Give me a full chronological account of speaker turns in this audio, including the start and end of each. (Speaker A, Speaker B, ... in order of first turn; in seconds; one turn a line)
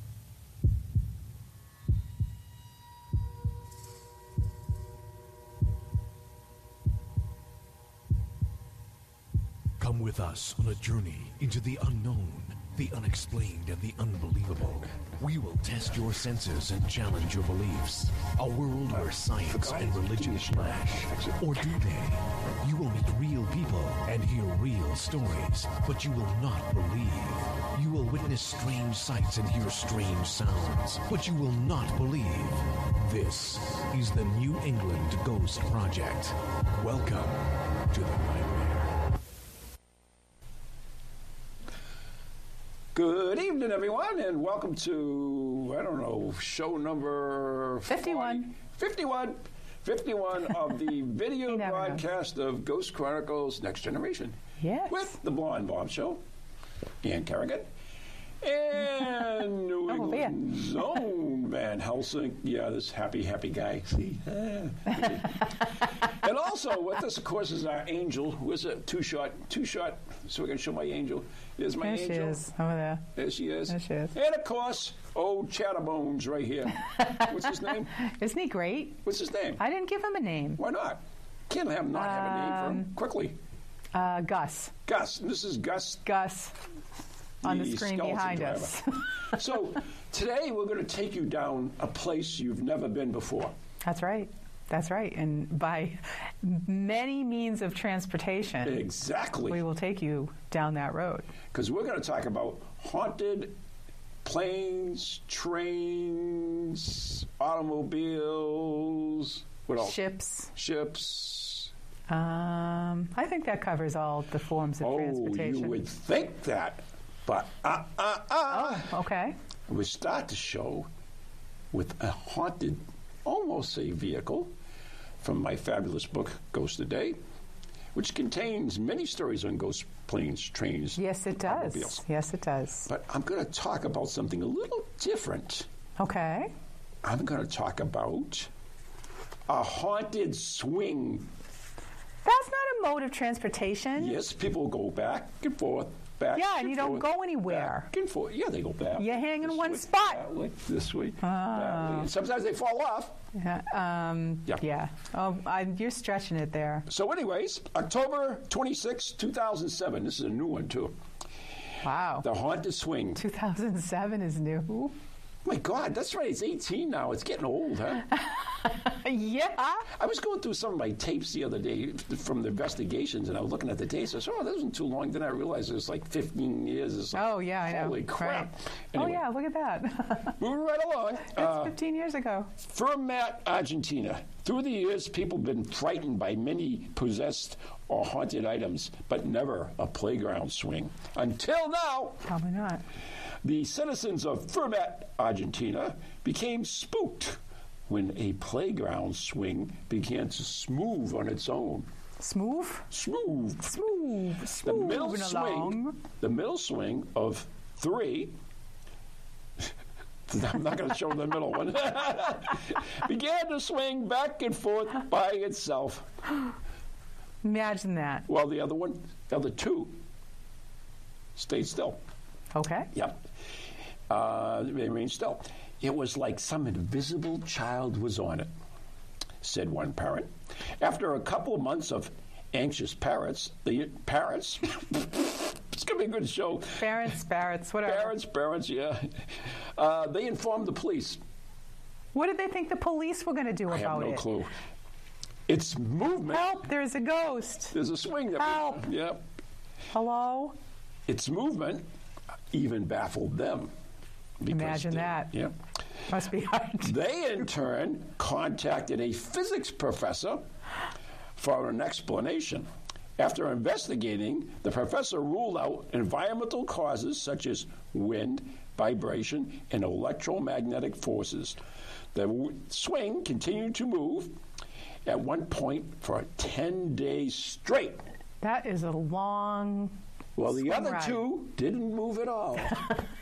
Speaker A: 9.8-39.0
Speaker B: 19.5-21.5
Speaker B: 42.9-54.4
Speaker C: 47.9-48.5
Speaker C: 51.5-52.0
Speaker C: 54.6-55.1
Speaker B: 54.9-56.2
Speaker B: 57.0-57.7
Speaker B: 58.4-72.4
Speaker C: 59.9-60.4
Speaker C: 71.8-73.1
Speaker B: 73.1-77.9
Speaker C: 73.7-74.1
Speaker C: 76.8-79.0
Speaker B: 79.0-79.6
Speaker C: 79.6-80.6
Speaker B: 80.6-83.4
Speaker C: 81.9-82.9
Speaker C: 83.9-84.7
Speaker B: 84.8-86.0
Speaker C: 86.0-86.5
Speaker B: 87.4-93.5
Speaker C: 87.4-89.3
Speaker C: 93.8-98.9
Speaker B: 98.6-99.6
Speaker C: 99.5-101.3
Speaker B: 101.5-103.6
Speaker B: 104.2-111.7
Speaker C: 109.8-110.5
Speaker C: 112.1-115.8
Speaker B: 114.8-119.0
Speaker C: 118.5-119.3
Speaker B: 119.7-120.9
Speaker B: 121.7-124.5
Speaker B: 125.2-127.2
Speaker B: 127.9-132.0
Speaker C: 131.0-132.9
Speaker B: 132.9-135.7
Speaker C: 136.0-136.5
Speaker B: 137.0-138.5
Speaker B: 139.5-141.3
Speaker C: 142.2-144.2
Speaker B: 144.0-153.2
Speaker C: 146.3-147.9
Speaker C: 149.0-150.2
Speaker C: 151.2-152.1
Speaker C: 153.3-156.9
Speaker B: 156.9-160.9
Speaker C: 161.8-162.2
Speaker B: 162.2-163.2
Speaker C: 163.1-164.9
Speaker B: 165.4-168.1
Speaker C: 168.2-169.9
Speaker B: 169.9-179.3
Speaker C: 177.1-180.4
Speaker B: 180.4-181.8
Speaker C: 181.2-182.5
Speaker B: 182.6-192.3
Speaker C: 192.3-192.8
Speaker B: 193.4-201.9
Speaker C: 202.2-202.9
Speaker B: 202.9-203.9
Speaker C: 203.6-206.0
Speaker B: 204.6-208.3
Speaker B: 210.3-216.1
Speaker C: 217.4-218.3
Speaker B: 218.3-220.0
Speaker B: 221.3-222.0
Speaker C: 222.5-222.9
Speaker B: 222.9-223.2
Speaker B: 224.1-228.5
Speaker B: 229.4-237.1
Speaker C: 236.7-238.1
Speaker B: 237.8-241.2
Speaker C: 242.1-244.3
Speaker B: 243.7-244.5
Speaker B: 245.5-246.6
Speaker C: 246.3-247.8
Speaker B: 247.7-249.2
Speaker C: 248.4-248.8
Speaker C: 249.9-250.5
Speaker B: 251.1-251.8
Speaker B: 252.5-253.7
Speaker B: 254.4-255.5
Speaker C: 254.5-255.3
Speaker C: 256.1-256.9
Speaker B: 256.8-260.4
Speaker B: 261.4-262.7
Speaker B: 263.2-271.6
Speaker B: 272.1-274.4
Speaker B: 275.1-278.0
Speaker C: 278.4-279.9
Speaker B: 280.4-282.8
Speaker C: 280.5-281.2